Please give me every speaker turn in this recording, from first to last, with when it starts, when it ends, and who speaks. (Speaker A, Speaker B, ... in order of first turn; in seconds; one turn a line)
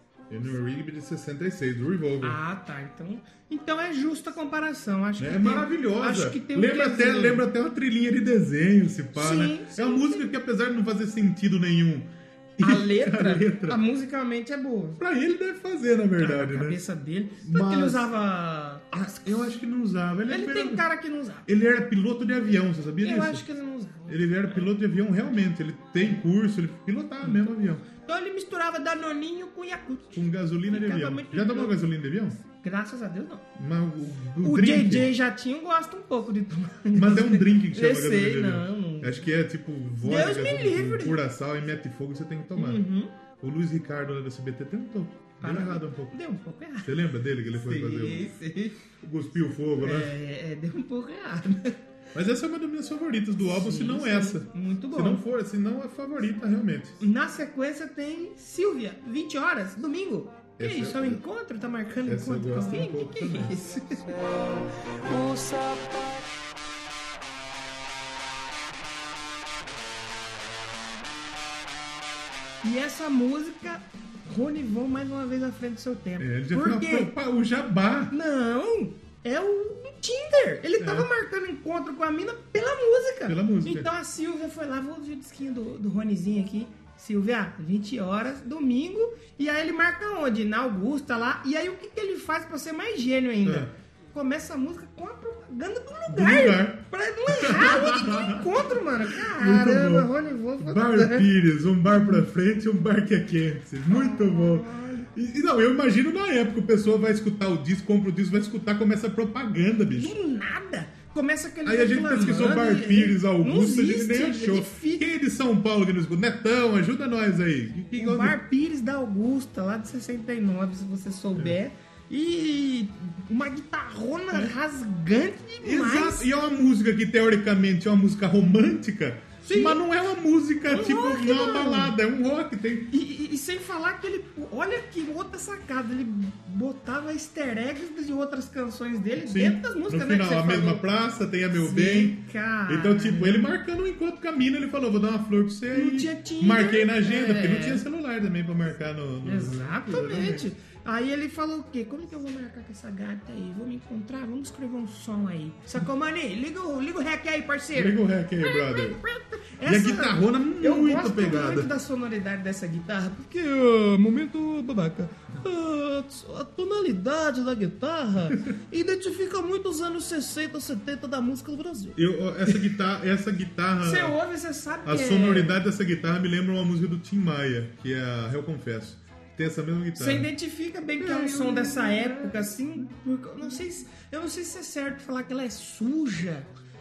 Speaker A: 0.3-2.4
Speaker B: 2.2-7.4
Speaker A: 5.2-13.8
Speaker B: 9.1-10.3
Speaker B: 12.6-15.0
Speaker A: 15.0-16.8
Speaker B: 16.2-19.5
Speaker A: 17.4-18.1
Speaker A: 19.2-20.8
Speaker B: 20.3-21.5
Speaker A: 21.4-23.4
Speaker B: 23.0-24.7
Speaker A: 24.1-27.8
Speaker B: 28.0-31.8
Speaker A: 30.1-32.4
Speaker B: 32.5-33.5
Speaker A: 33.5-35.1
Speaker B: 34.4-39.2
Speaker A: 36.9-42.8
Speaker B: 40.0-41.2
Speaker B: 42.5-43.1
Speaker A: 43.4-46.1
Speaker B: 45.4-46.9
Speaker A: 46.8-48.3
Speaker B: 47.6-48.8
Speaker A: 49.0-50.1
Speaker B: 49.8-51.8
Speaker A: 52.1-57.0
Speaker B: 53.5-55.2
Speaker B: 57.0-64.1
Speaker A: 60.6-61.2
Speaker A: 62.0-63.6
Speaker C: 64.1-66.2
Speaker B: 72.6-77.1
Speaker A: 76.2-78.1
Speaker B: 78.1-101.3
Speaker A: 80.8-81.1
Speaker A: 83.3-83.9
Speaker A: 93.4-93.7
Speaker A: 96.1-110.1
Speaker B: 101.9-102.2
Speaker B: 103.9-105.1
Speaker B: 109.9-115.1
Speaker A: 111.6-118.4
Speaker B: 117.9-126.3
Speaker A: 125.6-132.9
Speaker B: 129.4-129.8
Speaker B: 130.7-131.9
Speaker B: 132.9-140.8
Speaker A: 139.2-150.5
Speaker B: 141.5-143.5
Speaker B: 145.7-147.8
Speaker B: 149.2-172.6
Speaker A: 157.7-159.0
Speaker A: 159.6-161.7
Speaker A: 171.9-174.2
Speaker B: 173.8-175.6
Speaker A: 174.8-180.3
Speaker B: 179.9-186.5
Speaker A: 181.0-182.9